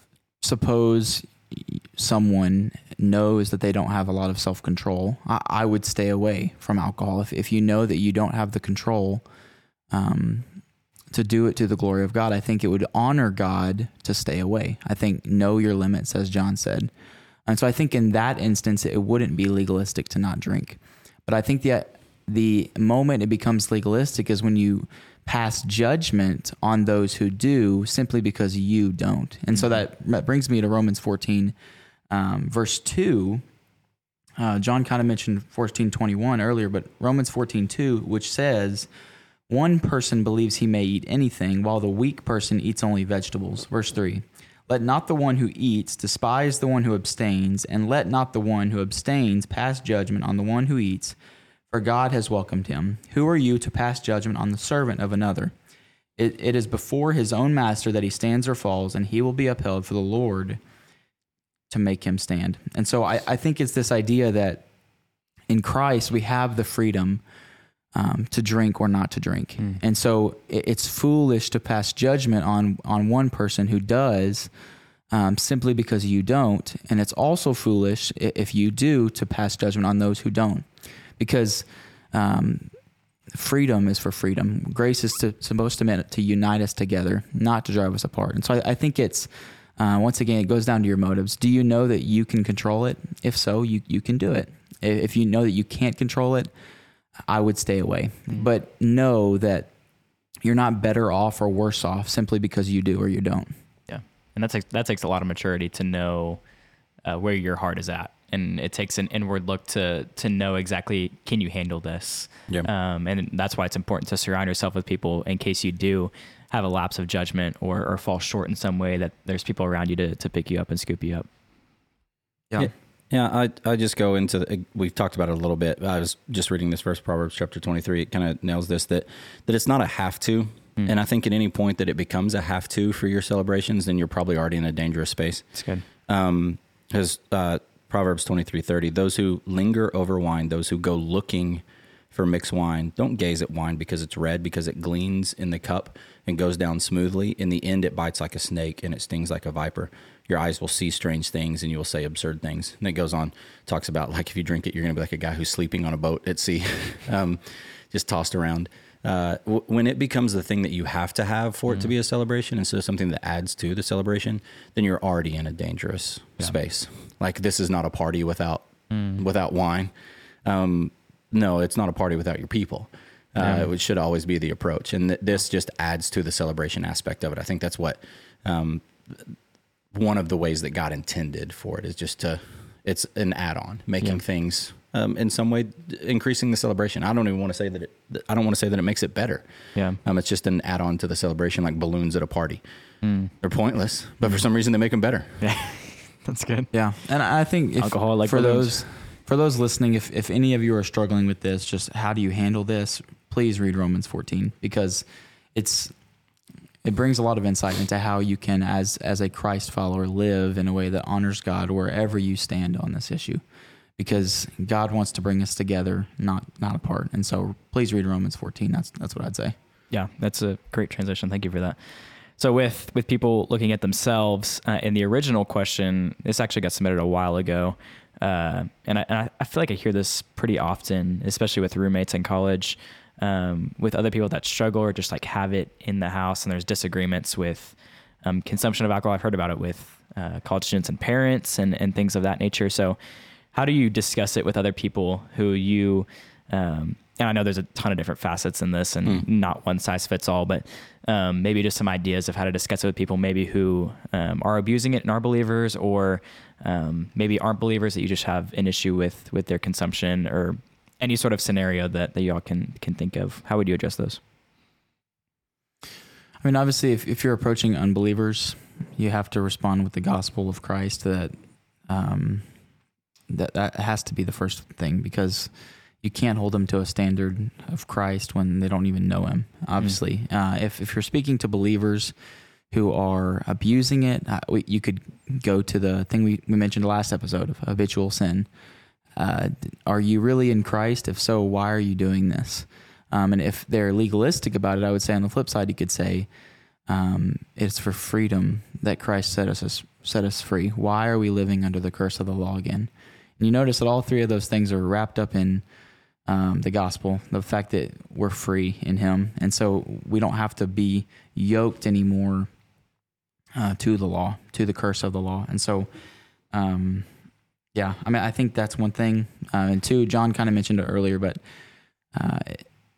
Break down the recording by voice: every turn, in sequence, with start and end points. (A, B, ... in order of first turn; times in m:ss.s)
0:00.4-0:09.2 A
0:09.9-0:10.5 A
0:11.1-0:16.9 A
0:17.5-0:31.6 A
0:29.5-0:29.8 B
0:32.1-0:33.4 A
0:34.4-0:38.9 A
0:39.5-0:51.2 A
0:51.7-0:55.5 A
0:56.2-1:00.6 A
1:01.7-1:04.6 A
1:05.5-1:07.2 A
1:07.9-1:14.5 A
1:15.1-1:22.7 A
1:23.3-1:36.5 A
1:37.3-1:39.7 A
1:40.4-1:43.5 A
1:43.9-1:46.4 B
1:47.0-2:01.3 B
2:02.6-2:15.5 C
2:15.6-2:15.8 B
2:16.1-2:49.9 C
2:48.9-2:49.2 B
2:50.4-2:59.4 C
2:53.4-2:53.7 B
2:59.9-3:09.4 C
3:10.0-3:12.6 C
3:13.0-3:13.3 B
3:13.4-3:15.4 C
3:15.4-3:16.7 B
3:16.7-3:25.9 A
3:17.8-3:18.8 B
3:26.8-3:33.4 A
3:34.0-3:39.6 A
3:39.9-4:03.0 B
4:03.5-4:24.2 B
4:26.4-4:31.3 A
4:31.9-4:32.5 A
4:33.3-4:35.5 A
4:36.0-4:42.1 A
4:42.7-4:48.5 A
4:49.2-4:56.3 A
4:56.9-5:05.6 A
5:06.3-5:12.5 A
5:13.5-5:15.9 A
5:16.5-5:17.1 A
5:17.7-5:21.4 A
5:22.1-5:22.6 A